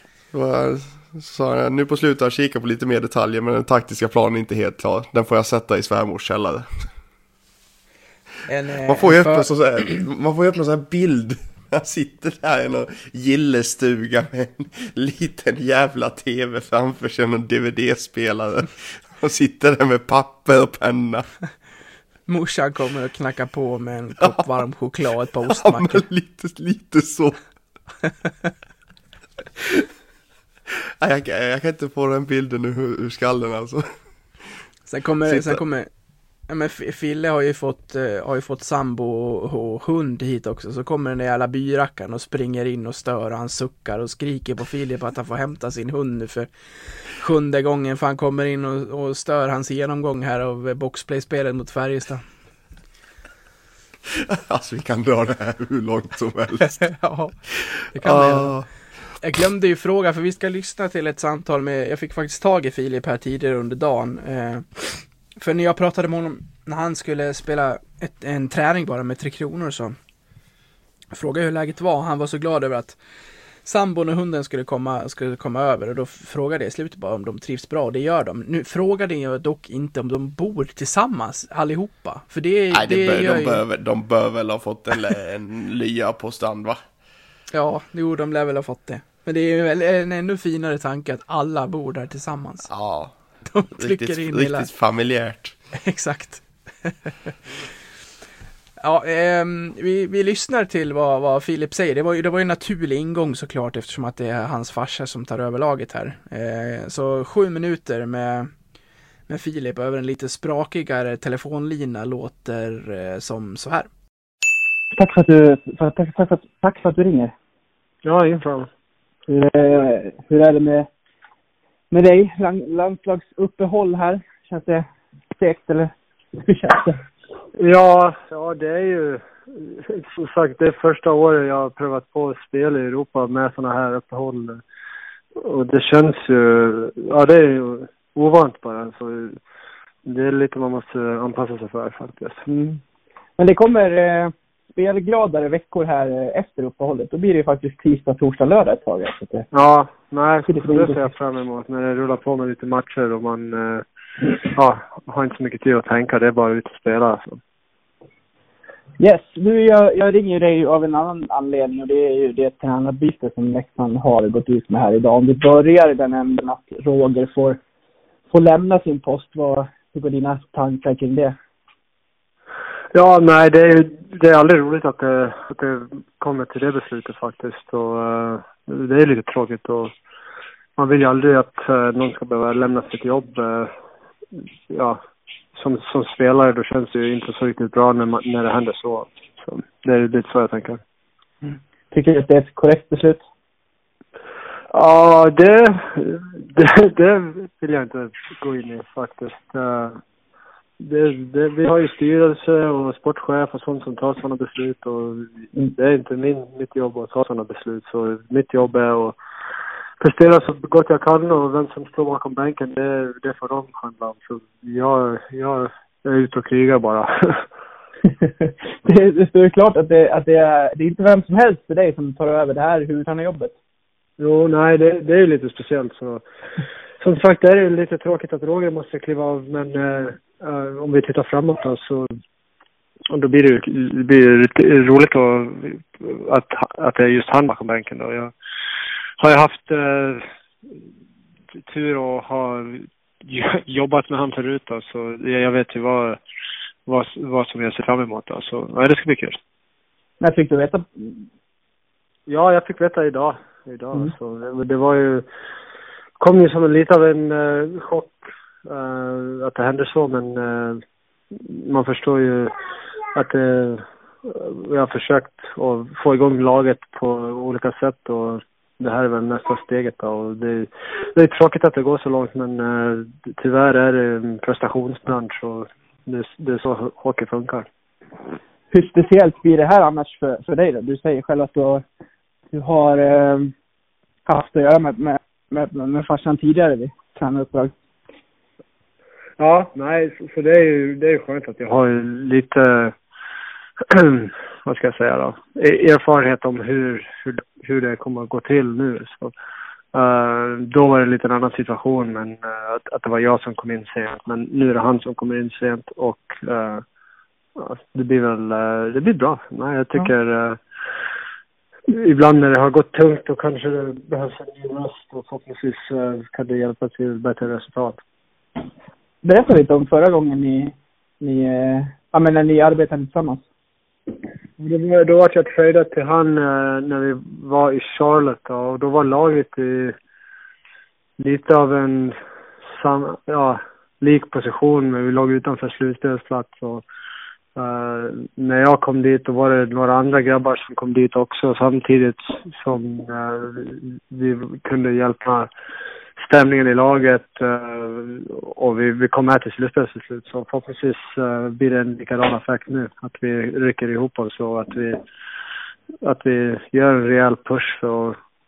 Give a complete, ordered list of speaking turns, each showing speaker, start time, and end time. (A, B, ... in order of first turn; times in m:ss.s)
0:00.3-0:06.7 A
0:08.5-0:09.5 B
0:08.8-0:21.2 A
0:22.3-0:26.0 B
0:25.5-0:27.4 A
0:31.0-0:33.9 A
0:34.9-0:35.9 B
0:35.2-0:35.6 A
0:36.5-0:46.5 B
0:47.0-0:52.2 B
0:54.1-0:56.8 A
0:56.6-0:57.3 B
0:57.5-0:58.7 A
0:57.9-0:58.6 B
0:59.2-1:10.0 B
1:11.1-1:13.0 B
1:13.6-1:23.6 B
1:22.7-1:26.8 A
1:27.5-1:32.7 B
1:32.6-1:33.1 A
1:33.5-1:34.7 B
1:33.7-1:35.6 A
1:35.8-1:37.3 B
1:38.8-1:48.5 B
1:49.3-1:53.9 B
1:54.9-1:57.3 C
1:58.0-1:58.7 D
1:59.3-2:00.9 C
2:01.9-2:04.9 C
2:05.4-2:07.0 C
2:07.6-2:14.6 D
2:15.4-2:19.4 D
2:20.0-2:22.4 D
2:22.4-2:22.8 C
2:23.4-2:29.4 C
2:29.5-2:33.8 D
2:30.5-2:31.1 C
2:34.5-2:37.4 D
2:39.0-2:47.6 C
2:48.3-2:51.3 C
2:52.9-2:59.9 D
3:00.8-3:03.7 D
3:04.7-3:05.0 D
3:05.5-3:10.8 D
3:11.9-3:13.2 C
3:14.7-3:20.0 D
3:20.8-3:29.2 D
3:30.0-3:37.5 D
3:38.8-3:43.5 C
3:44.2-3:46.2 D
3:47.0-3:52.2 D
3:53.1-3:58.3 D
3:59.2-4:00.2 D
4:01.6-4:06.2 D
4:06.8-4:09.4 D
4:10.2-4:11.2 C
4:12.3-4:15.3 D
4:16.2-4:20.8 D
4:21.3-4:22.5 D
4:23.1-4:37.7 D
4:38.7-4:41.8 C
4:42.5-4:43.5 C
4:44.2-4:47.7 C
4:49.4-4:52.9 D
4:53.9-4:59.3 D
4:59.9-5:06.8 D
5:07.6-5:10.6 D
5:11.9-5:18.0 D
5:19.2-5:23.4 C
5:24.6-5:30.0 D
5:31.2-5:32.2 D
5:32.7-5:36.8 D
5:37.6-5:45.5 D
5:46.2-5:55.0 D
5:56.0-5:58.2 D